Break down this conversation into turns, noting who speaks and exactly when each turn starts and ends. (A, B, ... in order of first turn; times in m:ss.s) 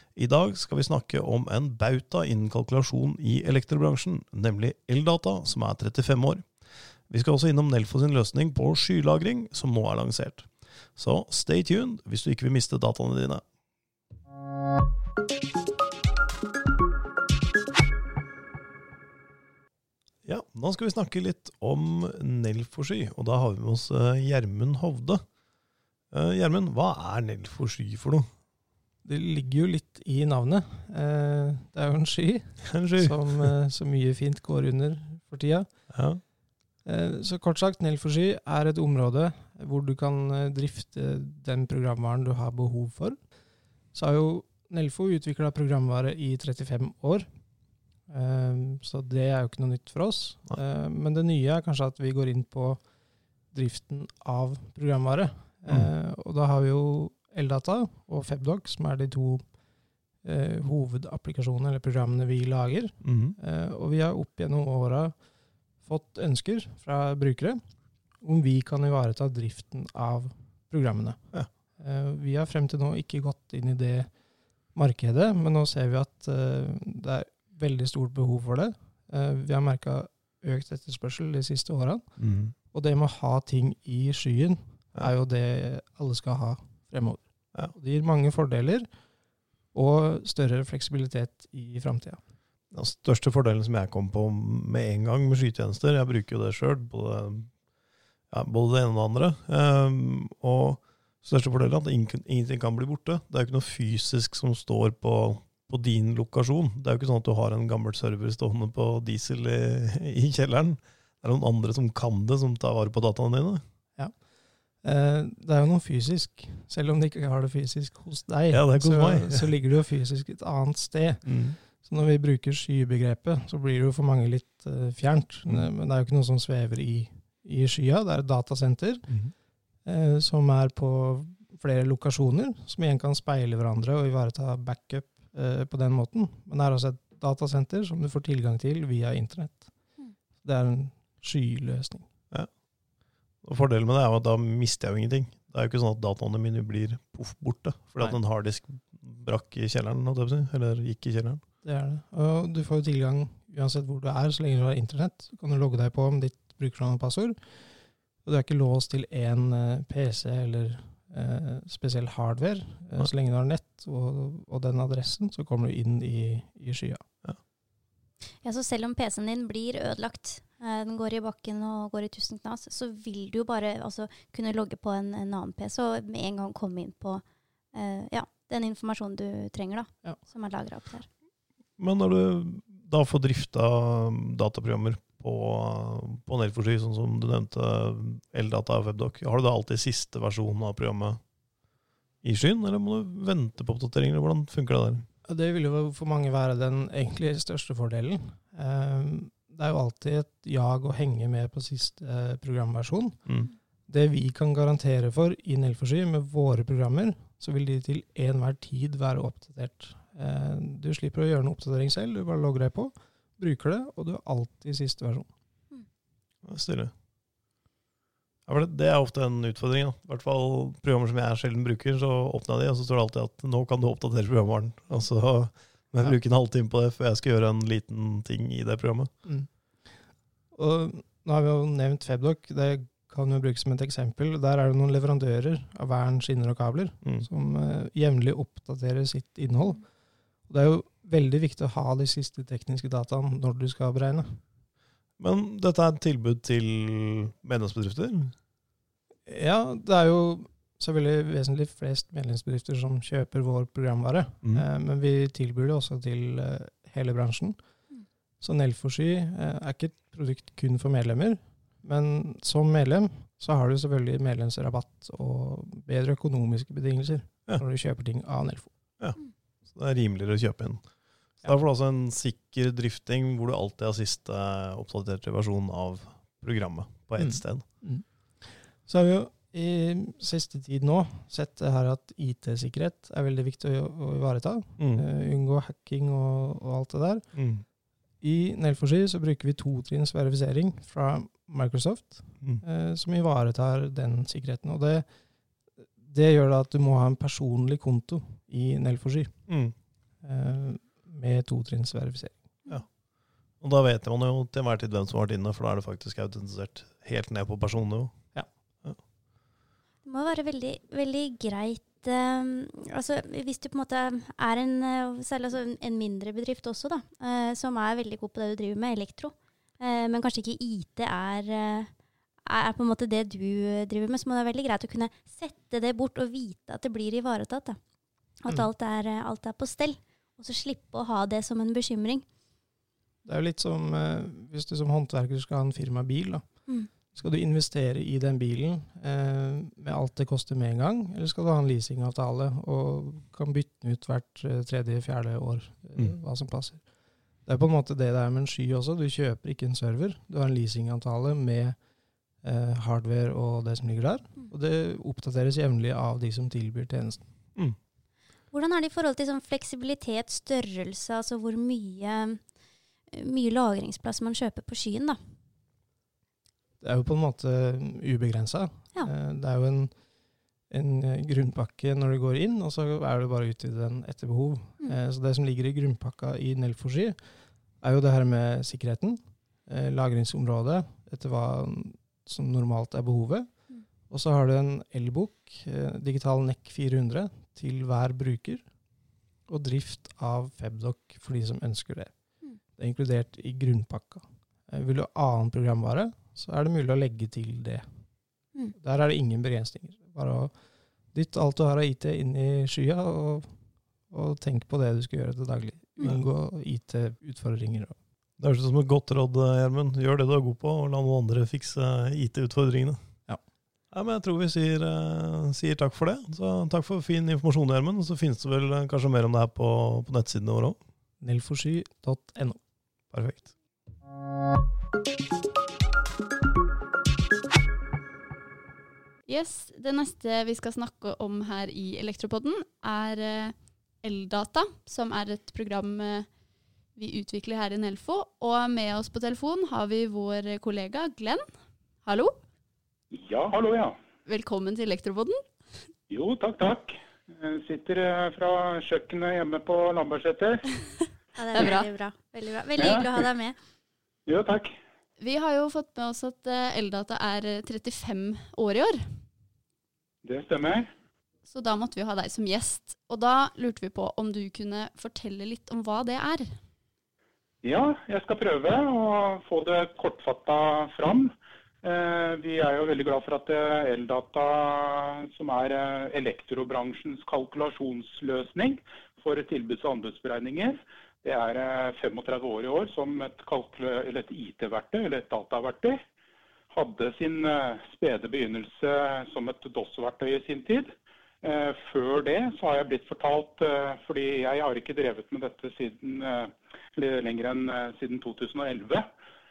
0:00.2-0:06.5 A
0:07.1-0:13.4 A
0:20.2-0:25.2 A
0:26.1-0:28.3 A
0:29.0-0:35.9 B
0:32.7-0:33.3 A
0:35.9-0:36.2 A
0:36.8-0:43.2 B
0:43.9-0:47.3 B
0:48.1-0:52.8 B
0:53.5-0:59.5 B
1:00.2-1:05.2 B
1:03.0-1:03.4 A
1:05.8-1:07.6 B
1:08.2-1:14.1 B
1:14.7-1:22.1 B
1:22.2-1:22.6 A
1:22.7-1:28.9 B
1:29.7-1:32.2 B
1:32.7-1:37.6 A
1:38.3-1:53.6 A
1:54.0-1:54.2 B
1:54.8-2:09.1 B
1:58.5-1:59.6 A
2:01.2-2:01.6 A
2:09.8-2:19.9 B
2:20.4-2:22.1 B
2:23.4-2:31.4 A
2:31.6-2:37.7 B
2:38.2-2:47.0 B
2:48.4-2:57.2 C
2:57.7-3:01.1 C
3:01.8-3:11.2 A
3:12.2-3:15.1 A
3:15.2-3:23.2 B
3:23.9-3:35.3 B
3:36.4-3:36.9 A
3:38.5-3:49.1 A
3:49.2-3:59.8 B
4:00.5-4:04.4 B
4:05.2-4:08.4 A
4:09.3-4:17.6 B
4:18.4-4:28.7 B
4:29.0-4:37.7 A
4:37.2-4:47.3 B
4:44.8-4:45.0 A
4:47.3-4:47.6 A
4:48.2-4:55.1 B
4:55.9-4:59.4 B
4:59.5-4:59.7 A
5:00.2-5:02.4 B
5:02.7-5:03.0 A
5:03.6-5:09.0 A
5:10.0-5:21.9 C
5:22.4-5:27.8 C
5:28.4-5:32.2 C
5:33.2-5:46.8 B
5:47.4-5:51.8 B
5:52.4-5:57.3 B
5:58.5-6:02.4 C
6:03.1-6:05.2 C
6:06.8-6:09.9 B
6:10.7-6:17.2 B
6:17.8-6:23.5 B
6:24.1-6:28.6 B
6:29.5-6:32.1 B
6:32.8-6:37.9 B
6:38.8-6:40.5 B
6:41.1-6:43.6 B
6:44.1-6:48.0 B
6:48.4-6:53.0 A
6:53.9-7:00.8 A
7:01.2-7:02.6 B
7:03.1-7:03.5 A
7:09.3-7:16.3 D
7:17.0-7:21.5 D
7:22.0-7:22.3 D
7:23.1-7:24.0 E
7:24.3-7:25.4 D
7:26.1-7:30.7 E
7:31.4-7:33.6 C
7:31.6-7:31.8 D
7:32.8-7:33.1 E
7:34.3-7:34.7 E
7:35.2-7:39.0 D
7:40.2-7:40.9 E
7:41.5-7:46.5 D
7:47.6-7:51.3 E
7:51.8-8:06.0 E
8:06.7-8:10.9 E
8:11.4-8:19.1 E